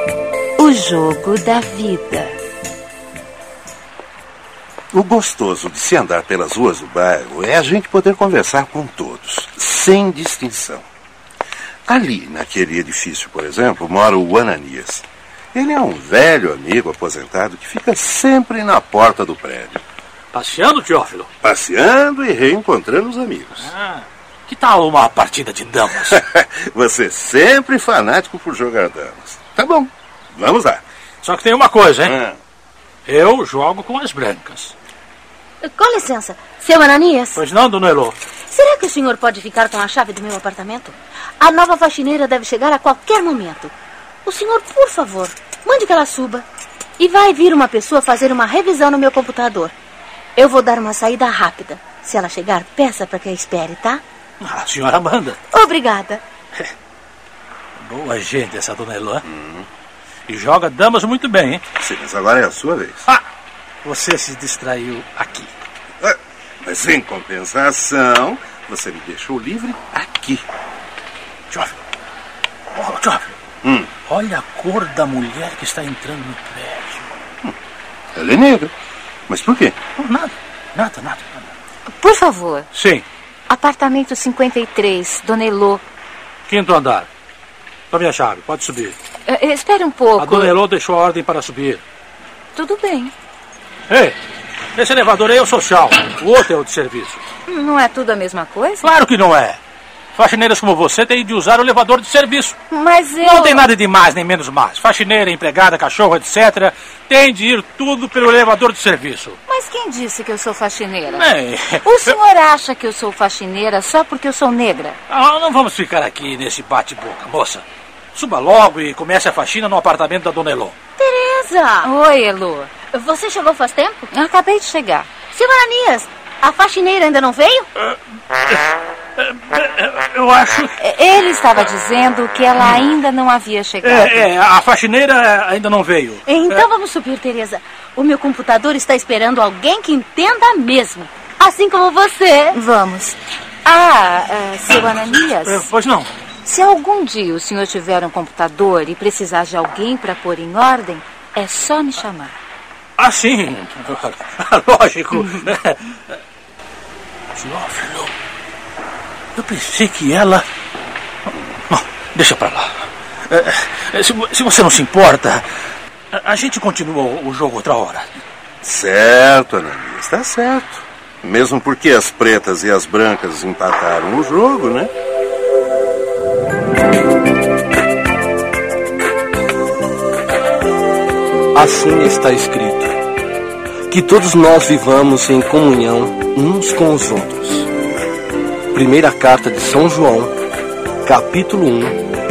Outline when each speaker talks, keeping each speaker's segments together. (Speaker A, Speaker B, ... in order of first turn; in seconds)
Speaker A: 0.6-2.3, 81.9-82.7, 83.5-85.8, 89.2-90.5, 92.5-93.1, 97.5-98.9, 102.7-103.7, 109.5-111.3, 111.8-115.0, 121.8-122.7, 124.1-125.1, 130.8-134.3, 142.5-145.7, 146.4-152.3
Speaker B: 4.9-10.8, 11.9-19.8, 21.4-23.7, 26.1-30.8, 32.0-32.4, 59.2-59.6, 61.8-63.0, 66.0-70.4, 73.6-73.9, 78.1-78.7, 79.3-79.8, 168.6-174.9
Speaker C: 20.3-21.3, 23.6-26.2, 31.2-32.1, 33.0-34.7, 37.3-38.2, 54.4-55.4, 57.8-59.2, 60.3-61.6, 63.8-65.5, 71.5-71.8, 72.7-73.4, 74.0-77.1, 80.0-81.5, 82.7-83.0, 86.5-87.1, 87.9-89.0, 90.2-91.8, 93.9-94.2, 94.8-97.2, 98.8-99.6, 100.2-102.5, 103.2-109.4, 111.1-112.2, 115.1-120.7, 129.2-130.7, 133.8-136.6, 145.4-146.1, 153.0-156.2, 157.3-158.1, 159.3-160.4, 161.7-165.4, 166.1-168.2
Speaker D: 35.6-37.4, 38.5-43.7, 44.2-46.5, 47.0-49.7, 50.4-54.0, 55.5-56.2, 121.0-121.9, 122.9-124.1, 125.3-127.7, 136.3-142.6
Speaker E: 181.5-183.0, 183.9-187.7, 188.7-190.4, 191.0-192.1